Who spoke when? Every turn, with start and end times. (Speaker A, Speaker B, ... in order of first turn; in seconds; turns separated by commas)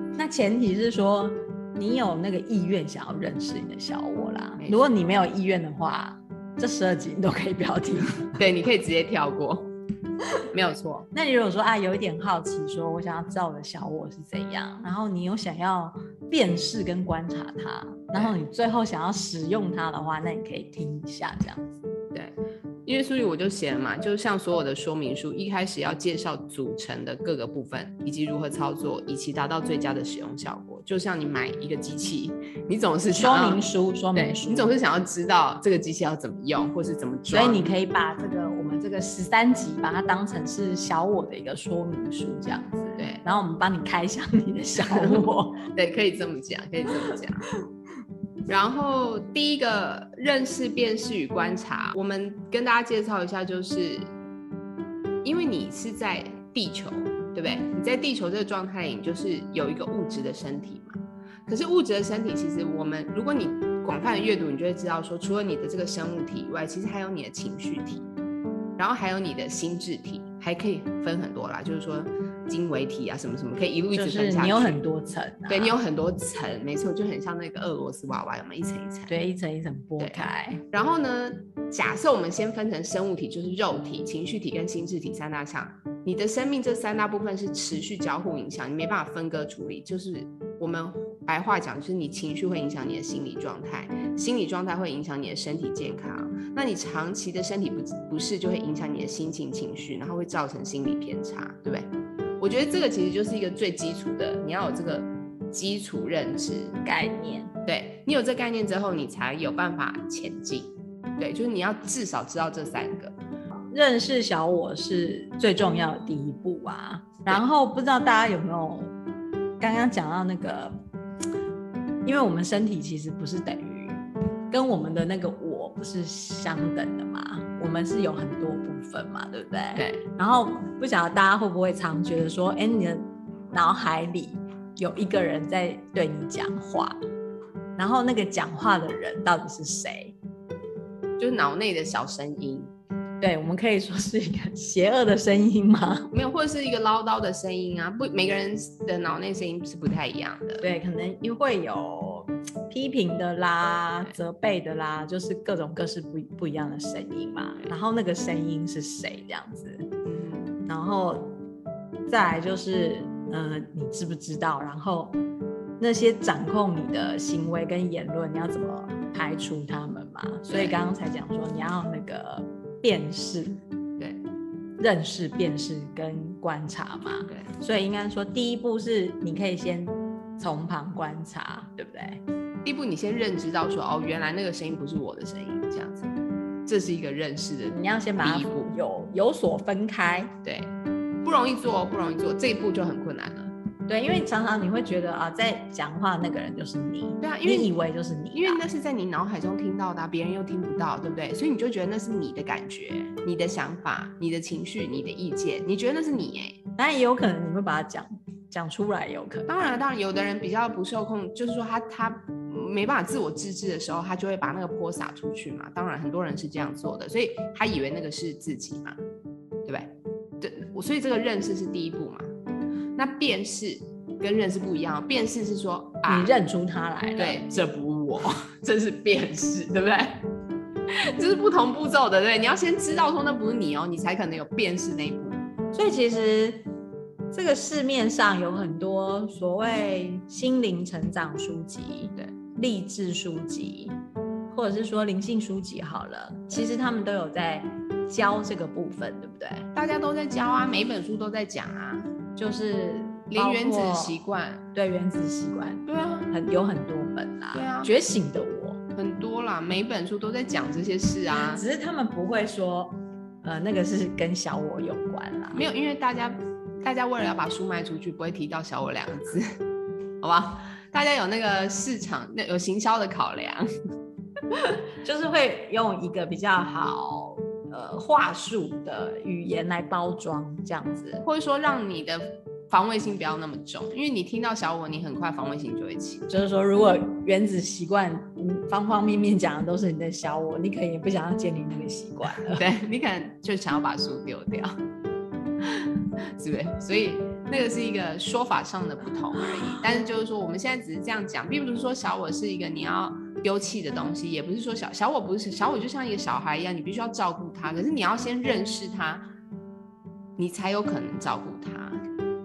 Speaker A: 0.1-8.4, Speaker B: 8.4-9.7, Speaker B: 10.5-11.1, Speaker A: 11.1-21.6, Speaker B: 22.9-33.6, Speaker A: 33.1-34.7, Speaker B: 34.1-37.7, Speaker A: 37.3-45.6, Speaker B: 44.8-47.5, Speaker B: 48.5-54.1, Speaker B: 55.2-68.1, Speaker B: 68.8-74.8, Speaker A: 73.9-75.8, Speaker B: 75.5-79.1, Speaker A: 79.1-80.6, Speaker B: 80.0-106.8, Speaker A: 106.8-107.5, Speaker B: 107.7-113.1, Speaker A: 113.5-118.9, Speaker A: 119.6-120.8, Speaker A: 122.0-136.9, Speaker B: 129.7-130.0, Speaker A: 137.8-140.2, Speaker B: 141.2-142.7, Speaker A: 143.2-146.1, Speaker B: 146.1-150.6, Speaker A: 150.6-159.9, Speaker B: 160.0-160.6, Speaker A: 160.7-161.4, Speaker A: 162.1-165.2, Speaker A: 165.8-173.6, Speaker B: 170.5-170.8, Speaker A: 174.8-182.2, Speaker B: 182.6-186.1, Speaker B: 186.7-188.7, Speaker A: 187.7-190.3, Speaker B: 190.4-190.7, Speaker B: 191.2-193.5, Speaker A: 193.9-198.6, Speaker B: 197.2-197.7, Speaker B: 198.3-206.6, Speaker A: 206.8-209.5, Speaker B: 209.5-219.0, Speaker B: 219.6-222.3, Speaker B: 222.9-226.4, Speaker A: 226.1-227.4, Speaker B: 227.2-230.2, Speaker B: 230.9-235.4, Speaker A: 235.7-236.6, Speaker A: 237.3-244.0, Speaker A: 244.5-249.7, Speaker B: 249.7-252.1, Speaker A: 252.3-254.2, Speaker B: 253.3-254.6, Speaker A: 254.7-258.8, Speaker B: 255.9-256.3, Speaker B: 257.5-257.9, Speaker B: 258.9-261.6, Speaker A: 261.3-265.6, Speaker B: 265.5-269.4, Speaker B: 270.2-273.7, Speaker A: 275.0-281.2, Speaker B: 281.2-286.3, Speaker A: 286.3-292.6, Speaker B: 292.5-294.7, Speaker B: 296.2-309.3, Speaker B: 310.4-312.0